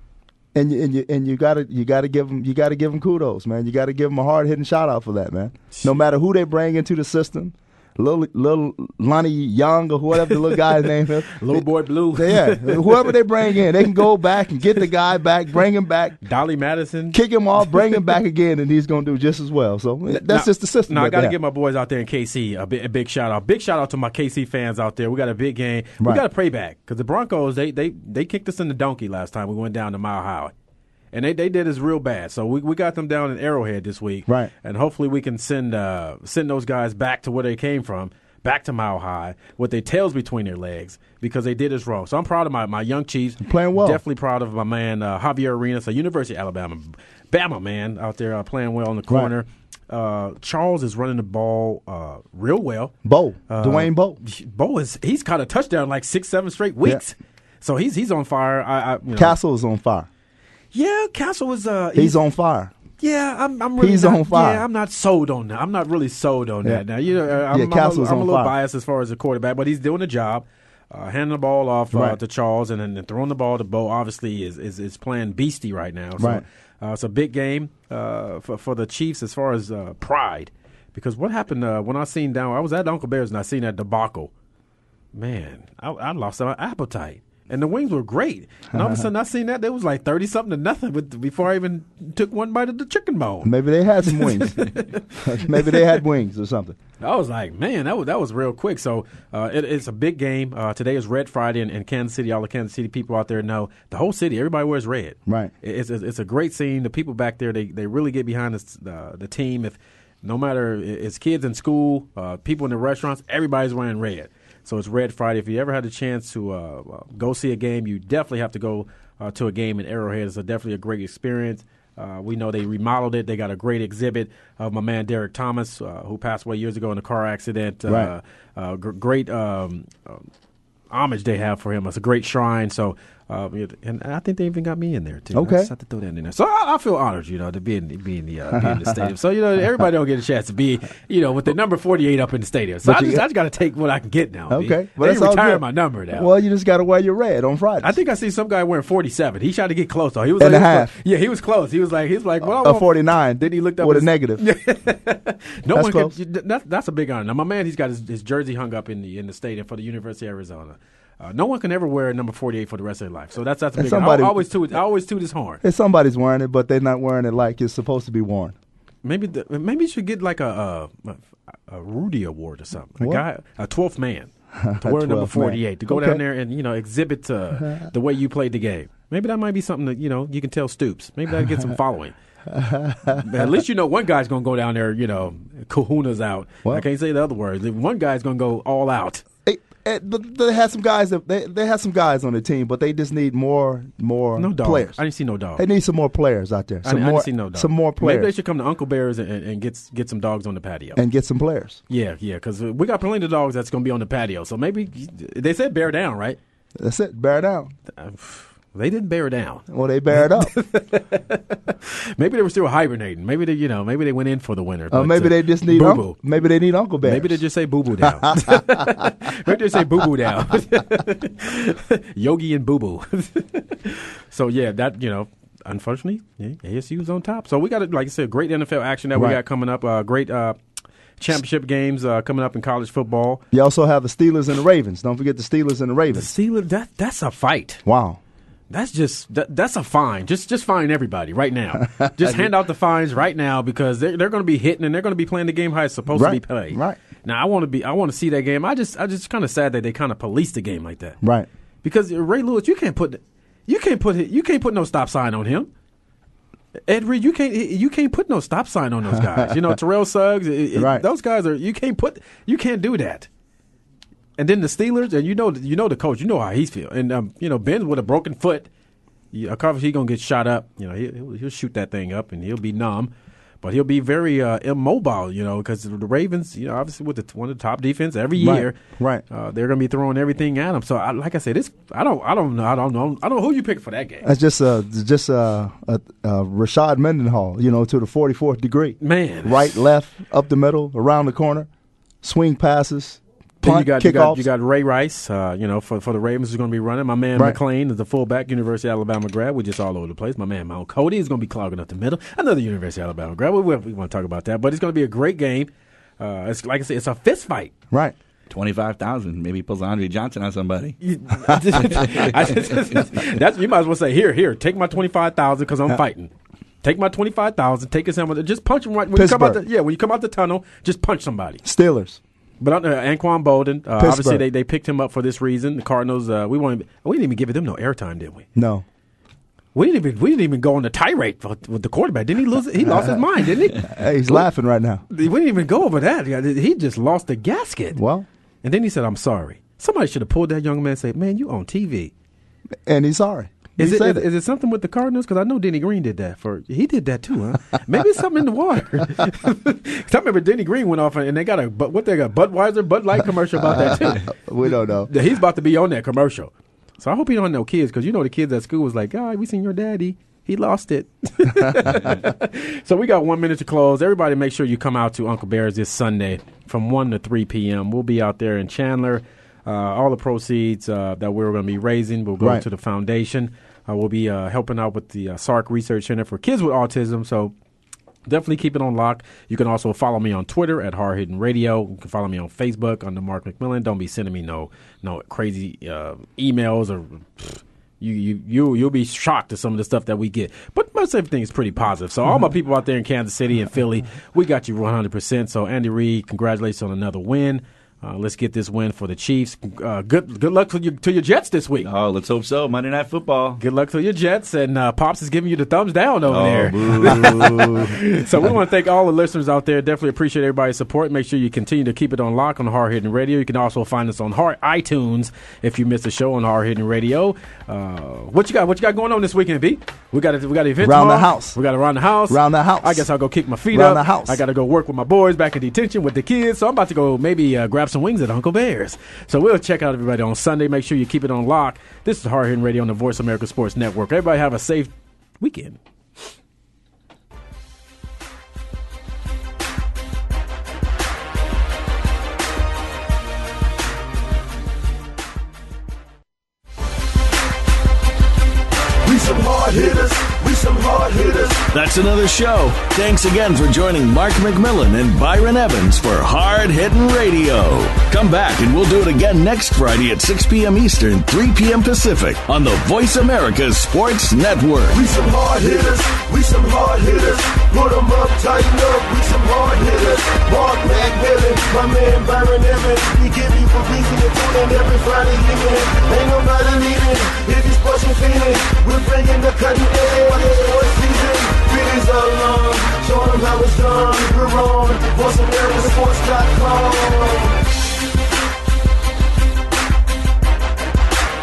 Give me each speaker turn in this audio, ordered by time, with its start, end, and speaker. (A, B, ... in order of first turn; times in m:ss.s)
0:00.5-0:16.2 A
0:05.7-0:06.0 B
0:11.3-0:14.1 B
0:16.2-0:18.0 B
0:17.1-0:21.3 A
0:20.1-0:30.5 B
0:26.0-0:26.2 A
0:31.1-0:52.9 B
0:43.4-0:44.0 A
0:49.1-0:49.3 A
0:53.0-0:54.2 A
0:53.5-0:59.4 B
0:59.2-1:00.1 A
1:00.7-1:02.2 B
1:01.9-1:02.7 A
1:03.0-1:24.3 B
1:03.8-1:04.6 A
1:07.5-1:08.5 A
1:11.9-1:12.2 A
1:16.2-1:16.4 A
1:25.1-1:36.0 B
1:28.7-1:29.1 A
1:33.4-1:34.6 A
1:35.2-1:36.8 A
1:37.0-2:10.2 B
2:07.9-2:08.1 A
2:10.9-2:26.3 B
2:15.3-2:15.7 A
2:18.5-2:19.1 A
2:22.8-2:23.2 A
2:24.5-2:28.0 A
2:27.8-2:45.6 B
2:30.4-2:30.9 A
2:32.4-2:34.4 A
2:35.7-2:36.1 A
2:43.8-2:44.5 A
2:45.6-2:48.6 A
2:49.0-2:54.3 B
2:54.6-2:56.2 A
2:54.8-3:02.1 B
3:02.5-3:03.4 A
3:03.1-3:09.2 B
3:09.4-3:15.0 A
3:14.4-3:15.6 B
3:15.6-3:18.3 A
3:16.8-3:21.0 B
3:21.0-3:21.8 A
3:21.9-3:26.4 B
3:26.8-3:27.7 A
3:28.0-3:36.2 B
3:29.7-3:30.5 A
3:34.9-3:37.4 A
3:37.0-3:50.6 B
3:38.0-3:39.1 A
3:49.1-3:49.4 A
3:51.2-3:53.4 B
3:53.5-3:56.3 A
3:56.1-3:57.8 B
3:57.8-3:58.2 A
3:58.7-4:11.2 B
4:02.0-4:02.4 A
4:06.1-4:07.0 A
4:11.2-4:11.5 A
4:11.8-4:15.7 B
4:16.9-4:23.3 B
4:19.1-4:19.7 A
4:20.7-4:21.0 A
4:24.4-4:28.7 B
4:29.3-4:38.8 B
4:38.4-4:39.2 A
4:39.3-4:44.3 B
4:44.2-4:51.7 A
4:49.0-4:49.8 B
4:52.2-4:54.4 A
4:53.6-5:07.7 B
5:08.5-5:11.0 C
5:11.0-5:16.3 B
5:16.8-5:21.6 B
5:19.1-5:19.6 A
5:21.6-5:22.2 A
5:22.6-5:28.5 B
5:24.0-5:24.4 A
5:28.6-5:28.8 A
5:29.7-5:34.4 B
5:32.8-5:33.2 A
5:33.8-5:35.0 A
5:35.1-5:38.0 B
5:37.9-5:38.3 A
5:38.6-5:42.1 B
5:42.8-5:44.2 A
5:43.8-6:17.5 B
5:53.6-5:55.1 A
6:18.2-6:41.9 B
6:41.8-6:43.6 C
6:43.6-7:15.8 B
6:46.3-6:47.9 C
7:00.8-7:01.6 A
7:02.3-7:03.1 A
7:03.7-7:04.4 A
7:29.0-7:31.7 D
7:31.7-7:45.0 E
7:44.9-8:07.6 D